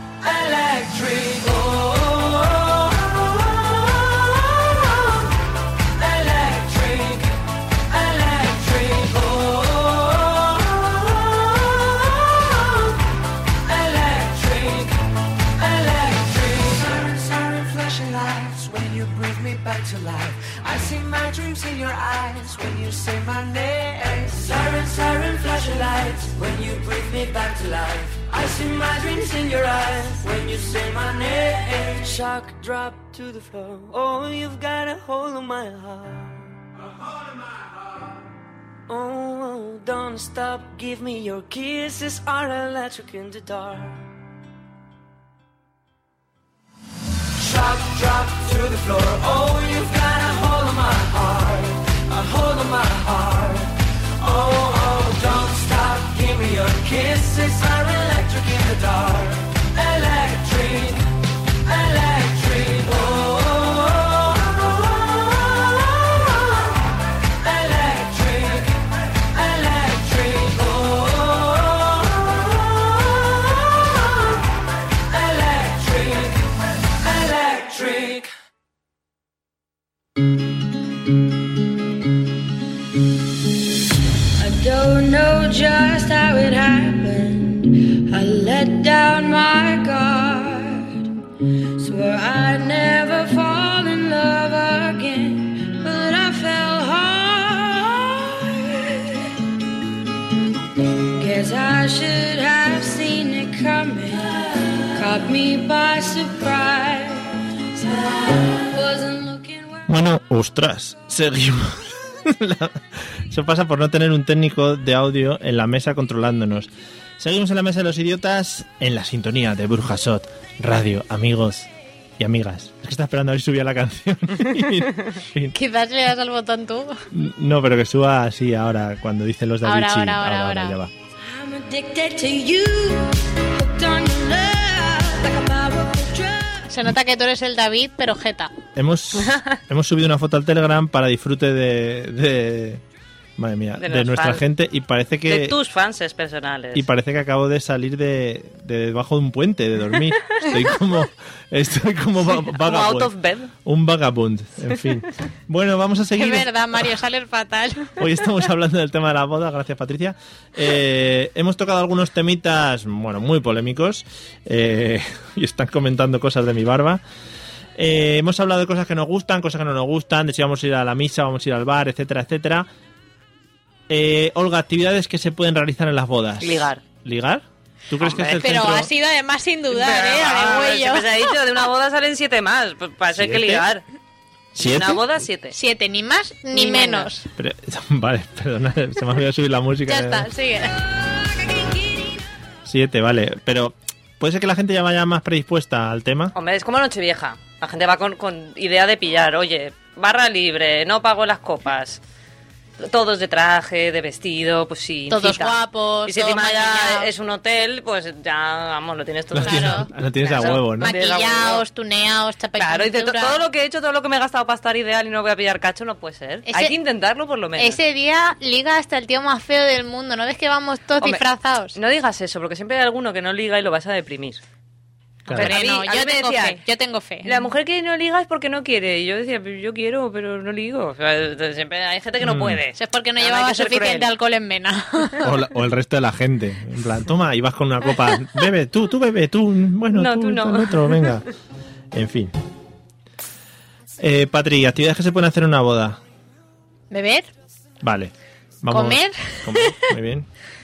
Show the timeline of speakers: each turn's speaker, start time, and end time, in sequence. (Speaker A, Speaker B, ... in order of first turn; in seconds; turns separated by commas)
Speaker A: 0.2-5.2, Speaker A: 5.8-12.9, Speaker A: 13.6-36.5, Speaker A: 38.9-44.0, Speaker A: 47.4-66.4, Speaker A: 67.3-73.9, Speaker A: 75.1-78.3, Speaker B: 84.4-91.1, Speaker B: 91.8-99.3, Speaker B: 101.1-109.8, Speaker C: 109.9-125.5, Speaker D: 125.5-127.0, Speaker C: 127.1-130.9, Speaker D: 129.6-130.8, Speaker B: 131.2-136.7, Speaker D: 136.7-138.5, Speaker C: 138.8-142.8, Speaker E: 139.2-139.5, Speaker C: 143.4-145.5, Speaker E: 143.8-144.4, Speaker E: 145.3-146.8, Speaker C: 146.7-153.1, Speaker E: 152.3-153.5, Speaker C: 153.6-156.9, Speaker D: 156.2-158.0, Speaker C: 158.0-167.0, Speaker C: 167.8-172.7, Speaker C: 173.9-178.9, Speaker E: 176.4-176.8, Speaker E: 178.0-178.4, Speaker D: 178.4-181.3, Speaker E: 179.7-183.8, Speaker C: 183.1-183.7, Speaker C: 184.6-185.0, Speaker E: 184.6-185.5, Speaker D: 185.5-187.2, Speaker E: 186.5-187.1, Speaker C: 187.4-190.3, Speaker D: 189.9-190.7, Speaker C: 192.7-196.3, Speaker E: 196.3-202.0, Speaker E: 202.8-211.6, Speaker D: 205.1-207.1, Speaker C: 209.3-210.9, Speaker D: 209.4-209.9, Speaker D: 210.4-213.4, Speaker E: 212.6-217.8, Speaker D: 216.5-216.7, Speaker D: 217.6-221.8, Speaker E: 221.7-224.4, Speaker C: 225.3-225.5, Speaker E: 225.3-226.6, Speaker D: 225.3-227.4, Speaker E: 227.2-234.1, Speaker C: 232.2-232.6, Speaker D: 232.8-235.3, Speaker C: 235.2-241.2, Speaker E: 239.9-241.2, Speaker C: 241.9-242.3, Speaker C: 244.0-246.0, Speaker D: 246.9-247.3, Speaker C: 247.8-248.1, Speaker C: 248.6-250.3, Speaker D: 248.7-249.9